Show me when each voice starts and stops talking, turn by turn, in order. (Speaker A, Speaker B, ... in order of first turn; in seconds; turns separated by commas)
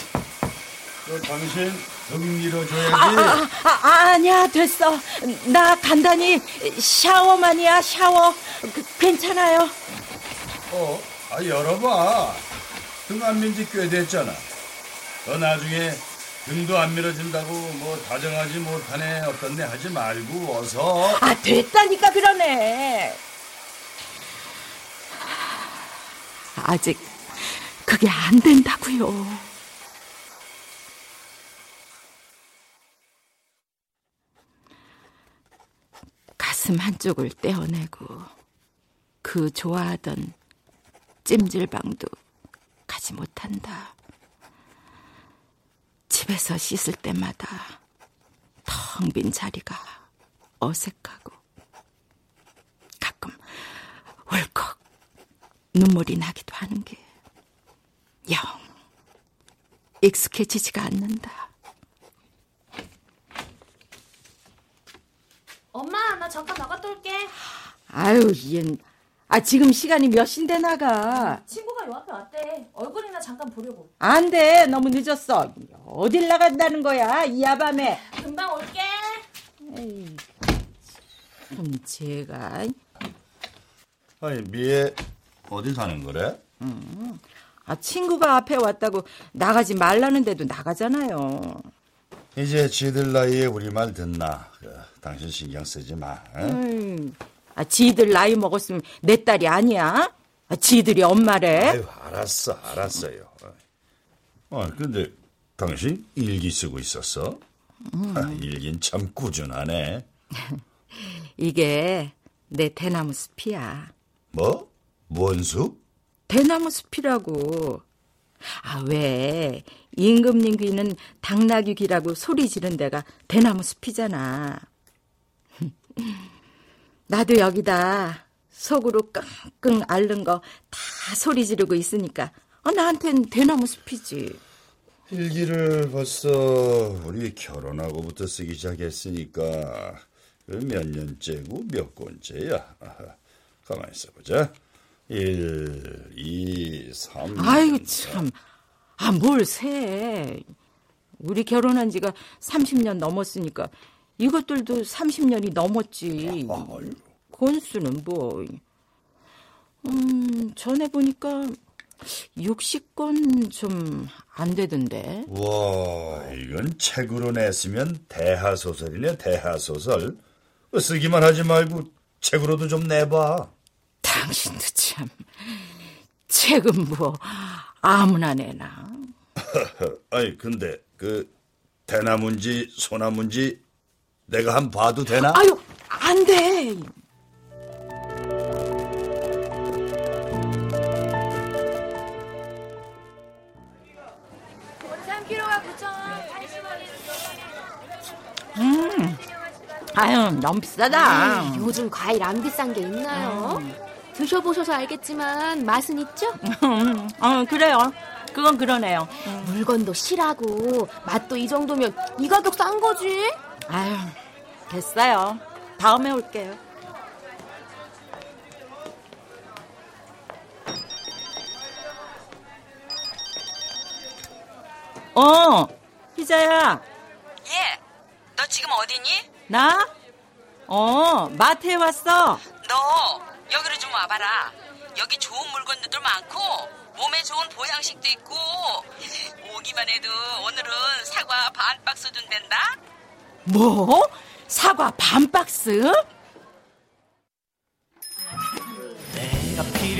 Speaker A: 1.0-3.4, Speaker B: 2.8-9.8, Speaker A: 10.7-12.4, Speaker A: 13.1-14.4, Speaker A: 15.2-21.2, Speaker B: 21.2-23.2, Speaker B: 26.5-29.5, Speaker B: 36.4-38.3, Speaker B: 39.2-40.3, Speaker B: 41.2-42.1, Speaker B: 42.9-43.9, Speaker B: 46.1-47.8, Speaker B: 48.6-50.0, Speaker B: 50.6-51.4, Speaker B: 53.0-54.8, Speaker B: 55.7-57.0, Speaker B: 58.3-58.6, Speaker B: 60.0-61.5, Speaker C: 65.7-67.3, Speaker B: 67.9-71.4, Speaker C: 71.1-73.9, Speaker B: 74.0-78.0, Speaker C: 78.0-79.2, Speaker B: 79.6-80.2, Speaker B: 81.5-82.8, Speaker A: 84.2-86.4, Speaker B: 86.6-91.7, Speaker A: 92.3-96.6, Speaker B: 96.4-101.8, Speaker A: 101.5-103.6, Speaker A: 104.5-107.4, Speaker B: 107.9-108.4, Speaker A: 108.1-110.0, Speaker B: 110.4-113.9, Speaker A: 114.3-115.8, Speaker B: 116.3-117.8, Speaker B: 118.5-124.7, Speaker B: 125.6-126.3, Speaker B: 127.1-134.4, Speaker A: 135.1-144.5, Speaker A: 145.1-148.3, Speaker B: 147.3-148.4, Speaker B: 149.0-150.5, Speaker B: 151.2-158.6, Speaker A: 156.3-157.0, Speaker B: 159.8-165.3, Speaker A: 165.3-170.2, Speaker A: 170.7-173.5, Speaker B: 174.0-179.1, Speaker A: 179.4-181.3, Speaker A: 181.9-183.6, Speaker A: 184.3-185.4, Speaker B: 185.2-186.9, Speaker C: 194.8-196.6, Speaker B: 198.5-199.2, Speaker B: 199.9-201.7, Speaker D: 200.9-206.4, Speaker B: 203.1-203.7, Speaker B: 206.4-209.6, Speaker D: 209.3-213.4, Speaker B: 213.7-214.2, Speaker B: 214.7-216.6, Speaker B: 225.1-226.8, Speaker E: 227.4-227.8, Speaker E: 228.3-229.3, Speaker B: 229.5-229.9, Speaker B: 230.7-232.4, Speaker E: 232.6-242.8, Speaker B: 243.4-246.0